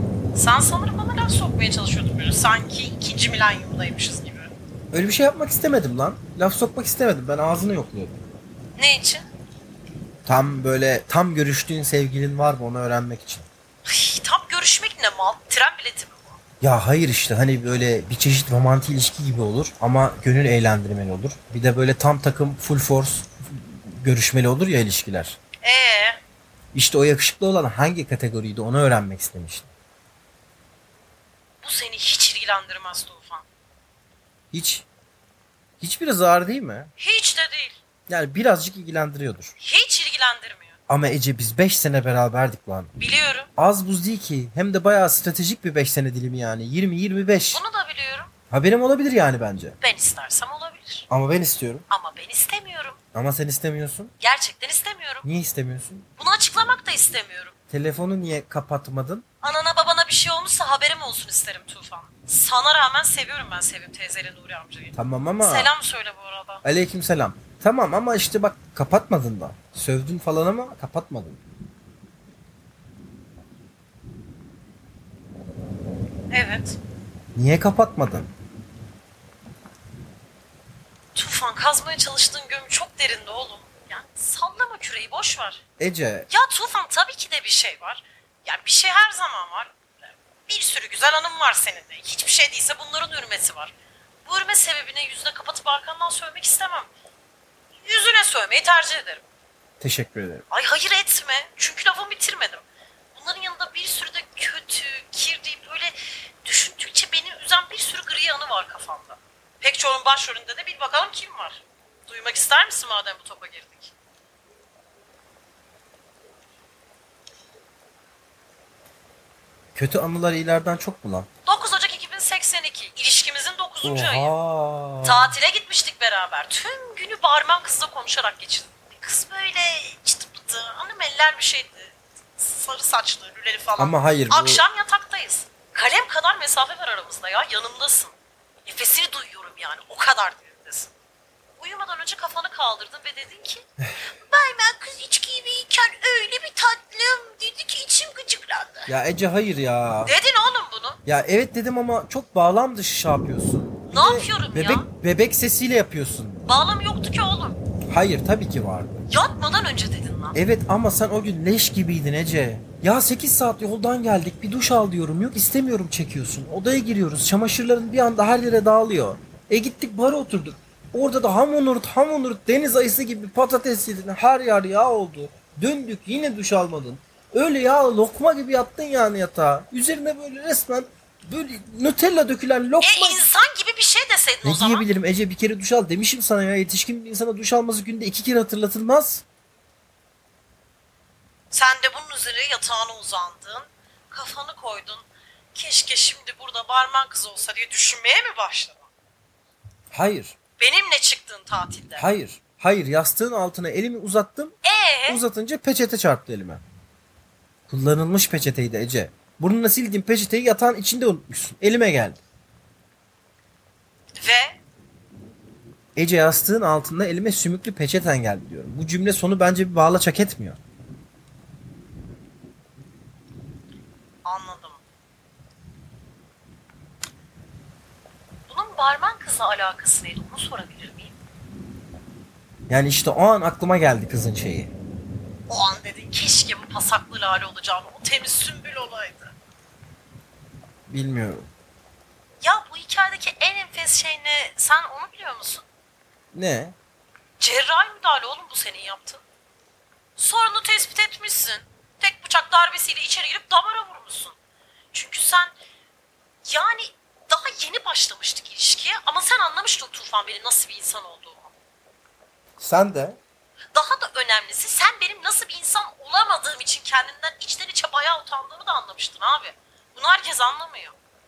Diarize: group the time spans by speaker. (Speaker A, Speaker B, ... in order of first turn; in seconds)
Speaker A: 0.3-4.5, 8.8-9.3, 13.9-16.4, 25.6-26.2, 31.6-33.5, 37.0-37.8, 39.6-40.8, 43.0-43.5, 47.5-48.3, 49.8-51.1, 51.9-53.0, 54.2-55.2, 56.2-57.5, 59.4-66.6, 76.3-76.8, 81.2-85.6, 86.3-93.7, 94.2-96.9, 97.8-99.2, 100.5-102.6, 103.1-113.9, 121.5-124.3, 125.0-138.1, 138.7-140.9, 141.6-148.9, 150.1-151.0, 153.9-154.9, 156.5-157.6, 159.1-160.4, 182.8-184.9, 191.5-198.9, 200.6-202.1, 204.6-205.2, 214.2-214.6, 224.2-224.8, 228.5-231.2, 235.5-239.3, 242.4-245.7, 247.4-249.2, 250.2-254.4, 254.9-255.6, 256.4-261.5, 263.7-271.0
Speaker B: 4.9-8.2, 10.3-13.5, 16.6-25.4, 26.7-29.7, 34.5-34.9, 35.8-36.9, 38.1-39.5, 40.9-42.9, 43.6-47.6, 48.5-49.8, 51.1-51.9, 53.1-54.1, 55.2-56.1, 57.7-59.2, 64.9-65.7, 66.6-71.4, 77.3-78.3, 85.8-86.3, 99.8-100.4, 119.8-121.3, 123.8-125.3, 133.8-134.7, 148.9-150.2, 151.1-156.5, 157.9-159.1, 160.3-183.3, 184.4-189.2, 199.9-200.3, 202.0-204.6, 205.1-206.6, 207.7-212.2, 216.0-220.6, 232.7-234.7, 240.9-241.5, 246.3-246.8, 262.6-263.2